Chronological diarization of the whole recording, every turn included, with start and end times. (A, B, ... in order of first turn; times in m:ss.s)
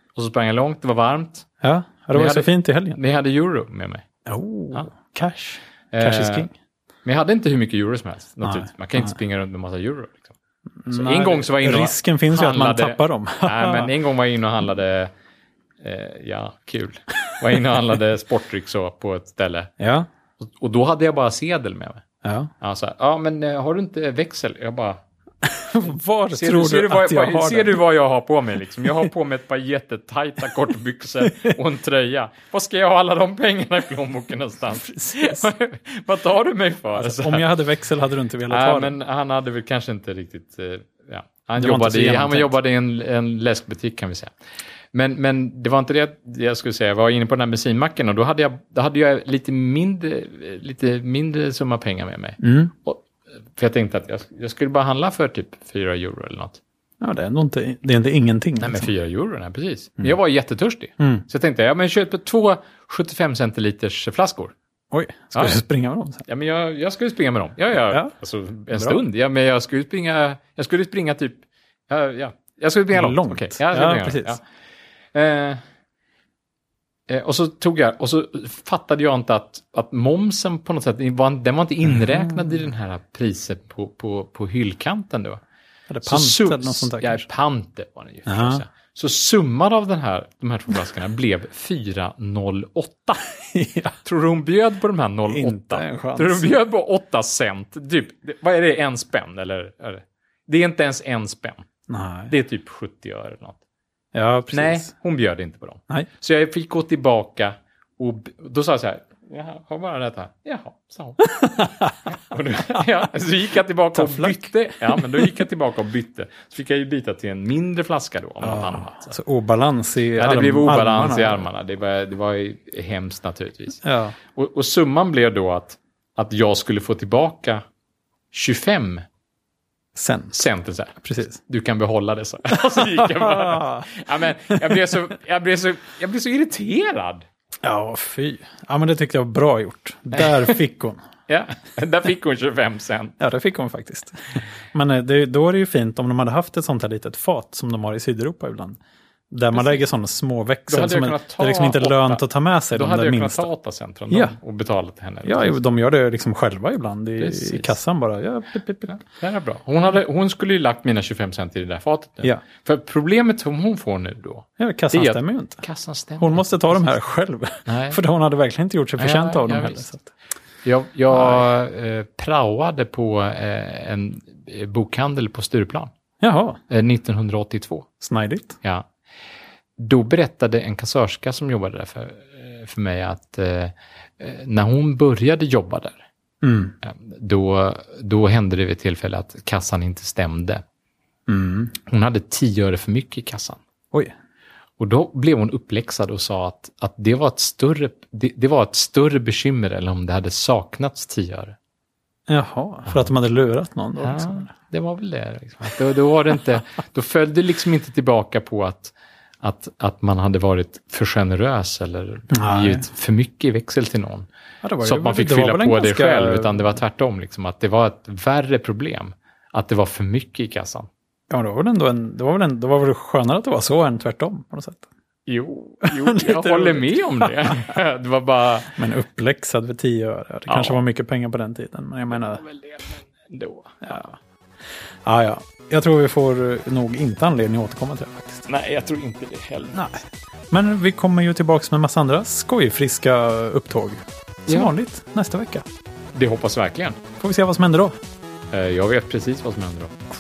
0:00.2-0:01.5 A
0:01.6-0:03.0 B
0:02.1-0:04.0 A
0:04.3-0:06.5 B
0:05.9-0:06.5 A
0:07.0-0:10.4 A
0:08.4-0:09.2 B
0:10.8-0:13.9 B
0:10.9-0:15.1 A
0:15.8-0:19.7 A
0:19.8-0:20.1 B
0:20.4-0:22.0 A
0:22.2-0:22.5 B
0:22.6-0:25.0 A
0:25.4-0:27.8 B
0:26.3-0:37.4 A
0:31.2-0:31.6 B
0:34.8-0:35.5 B
0:37.0-0:39.0 B
0:38.5-0:44.3 A
0:41.6-0:42.5 B
0:44.9-0:53.0 A
0:52.4-0:52.7 B
0:53.6-0:56.6 A
0:57.0-0:58.9 B
0:58.6-1:04.5 A
1:01.0-1:01.2 B
1:04.9-1:06.2 B
1:05.3-1:05.6 A
1:06.3-1:14.4 A
1:08.7-1:09.0 B
1:12.9-1:14.4 B
1:15.1-1:15.6 A
1:17.1-1:25.4 A
1:21.9-1:22.6 B
1:25.9-1:27.2 B
1:26.0-1:33.3 A
1:28.3-1:28.6 B
1:33.5-1:34.0 B
1:34.0-1:41.7 A
1:35.3-1:36.5 B
1:41.9-1:42.3 B
1:42.3-1:43.6 A
1:44.1-1:44.9 B
1:44.5-1:59.2 A
1:51.2-1:52.0 B
1:53.9-1:55.3 B
1:58.4-2:01.4 B
2:00.2-2:03.8 A
2:03.8-2:04.2 B
2:04.3-2:07.6 A
2:08.3-2:09.0 A
2:10.0-2:10.4 B
2:10.3-2:17.3 A
2:11.0-2:11.4 B
2:12.6-2:14.8 B
2:17.6-2:21.0 B
2:20.1-2:20.6 A
2:21.3-2:23.2 A
2:23.2-2:28.8 B
2:29.3-2:33.5 B
2:29.5-2:29.8 A
2:30.7-2:35.6 A
2:34.1-2:34.4 B
2:35.2-2:39.0 B
2:37.2-2:37.8 A
2:38.9-2:46.9 A
2:44.6-2:45.6 B
2:46.2-2:50.1 B
2:47.7-2:48.0 A
2:49.0-2:49.9 A
2:50.6-2:55.9 A
2:51.1-2:51.5 B
2:56.2-2:56.6 B
2:56.7-2:57.9 A
2:58.0-2:58.6 B
2:58.6-2:58.9 A
2:59.8-3:06.0 A
3:06.4-3:06.7 B
3:06.8-3:10.6 A
3:11.3-3:11.7 B
3:11.9-3:13.6 A
3:14.8-3:21.6 A
3:22.3-3:24.5 B
3:24.0-3:34.3 A
3:32.3-3:32.8 B
3:34.6-3:36.8 B
3:34.8-3:40.9 A
3:41.3-3:44.9 B
3:45.3-3:48.8 A
3:45.8-3:47.7 B
3:48.7-3:52.4 B
3:50.5-3:50.8 A
3:52.1-3:54.0 A
3:53.8-3:54.2 B
3:55.0-3:58.4 B
3:58.5-3:59.8 A
3:59.7-4:05.6 B
4:04.5-4:04.7 A
4:06.2-4:07.0 A
4:07.2-4:08.0 B
4:08.5-4:10.0 A